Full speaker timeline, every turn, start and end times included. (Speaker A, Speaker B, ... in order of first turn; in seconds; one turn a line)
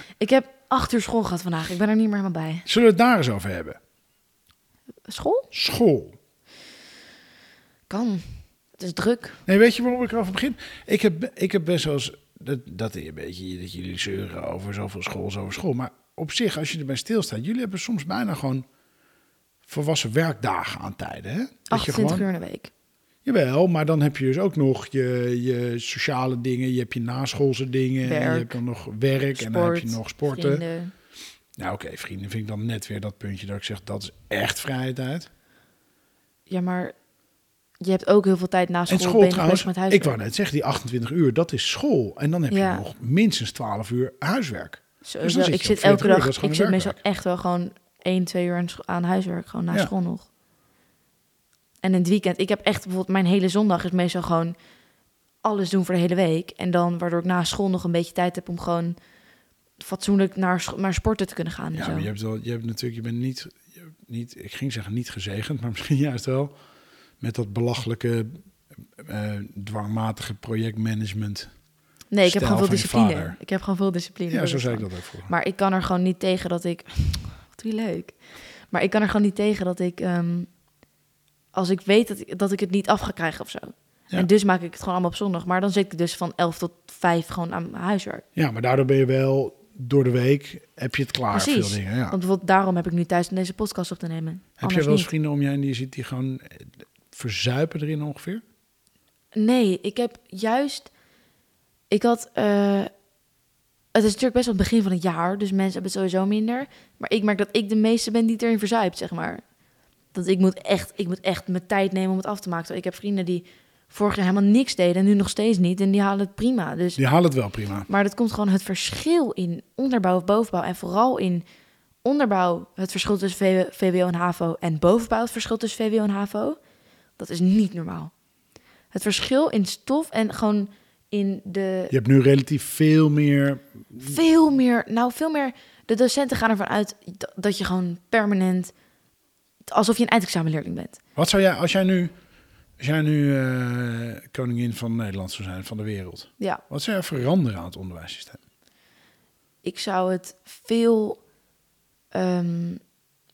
Speaker A: 0.2-2.7
Speaker B: 2.7-3.8
Speaker A: 5.1-5.5
Speaker B: 5.5-6.2
Speaker A: 7.9-9.4
Speaker B: 9.5-18.7
Speaker B: 19.7-22.3
Speaker A: 21.7-22.7
Speaker B: 23.2-30.6
Speaker A: 28.0-28.6
Speaker A: 29.4-30.9
Speaker B: 31.6-35.3
Speaker A: 36.5-37.0
Speaker A: 37.8-40.2
Speaker B: 38.9-47.0
Speaker A: 42.5-42.8
Speaker A: 45.0-50.3
Speaker A: 51.8-54.6
Speaker A: 55.4-59.0
Speaker A: 59.8-62.1
Speaker B: 61.7-66.5
Speaker B: 67.2-68.4
Speaker B: 68.9-71.5
Speaker A: 72.1-78.2
Speaker B: 72.2-73.4
Speaker B: 74.3-75.3
Speaker A: 78.7-80.5
Speaker A: 81.5-88.2
Speaker B: 88.3-92.2
Speaker A: 91.3-95.1
Speaker B: 94.6-98.4
Speaker A: 99.3-100.9
Speaker A: 101.9-102.9
Speaker A: 103.9-109.4
Speaker A: 110.1-117.0
Speaker B: 117.0-117.9
Speaker A: 117.9-121.4
Speaker A: 122.0-126.6
Speaker A: 127.2-128.1
Speaker A: 128.9-131.9
Speaker B: 131.9-134.2
Speaker A: 134.0-138.7
Speaker A: 139.7-141.0
Speaker B: 141.2-142.1
Speaker B: 142.8-148.4
Speaker A: 149.6-151.2
Speaker A: 152.1-152.8